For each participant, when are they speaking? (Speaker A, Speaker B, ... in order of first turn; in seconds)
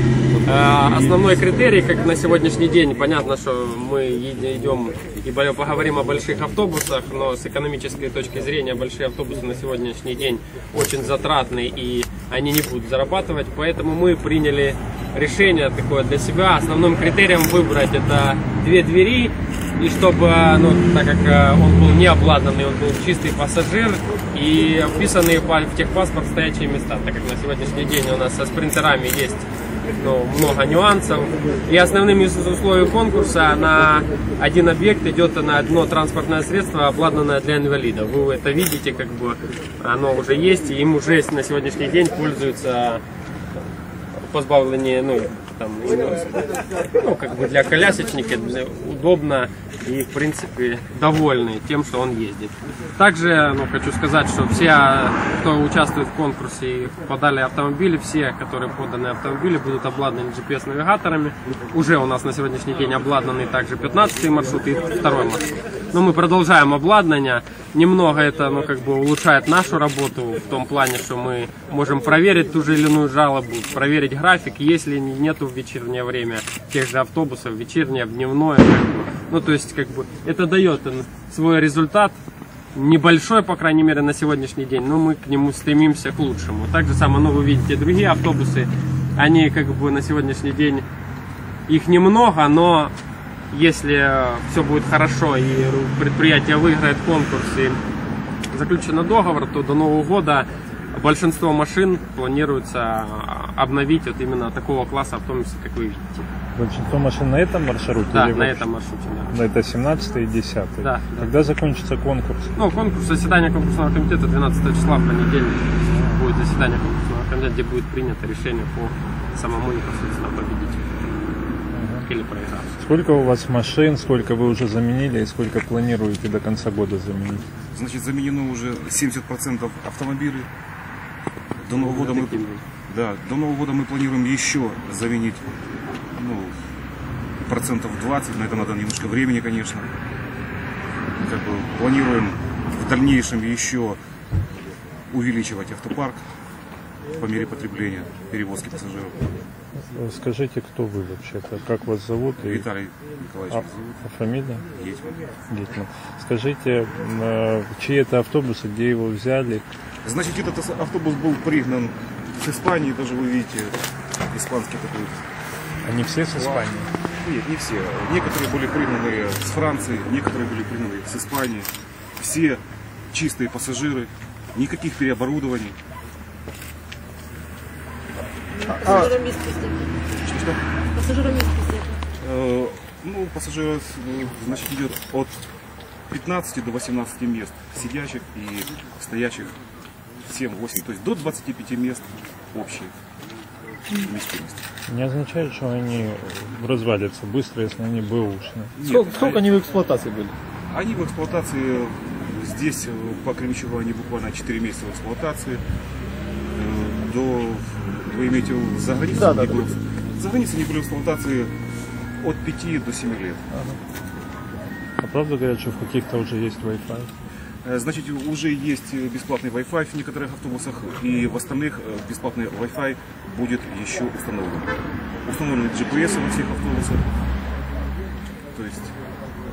Speaker A: 0.5-43.0, 44.1-82.2, 82.8-90.9, 91.7-92.9, 93.5-97.8, 98.5-106.3, 108.1-109.3, 110.8-111.3, 112.6-120.8, 122.0-122.8, 131.7-132.6
Speaker B: 106.5-108.6, 109.3-112.5, 121.7-122.1, 122.8-127.5, 149.9-152.7, 154.1-154.6, 155.5-159.7, 165.8-166.9, 194.9-198.8, 213.5-213.8, 215.0-217.1
Speaker C: 127.8-130.5, 131.7-135.5, 136.2-136.6, 137.5-139.9, 141.2-144.0, 145.1-146.2, 147.2-149.2, 152.5-154.0, 154.8-155.3, 160.0-163.8, 164.3-165.2, 167.2-175.8, 180.2-180.6, 182.2-185.4, 186.1-189.6, 190.2-192.9, 194.1-194.6, 198.8-199.4, 200.7-205.6, 206.5-211.5, 212.2-213.4, 217.6-224.7, 225.3-227.0, 228.5-228.9
Speaker D: 178.6-179.9, 180.9-182.0
Speaker E: 198.8-200.3, 209.1-209.8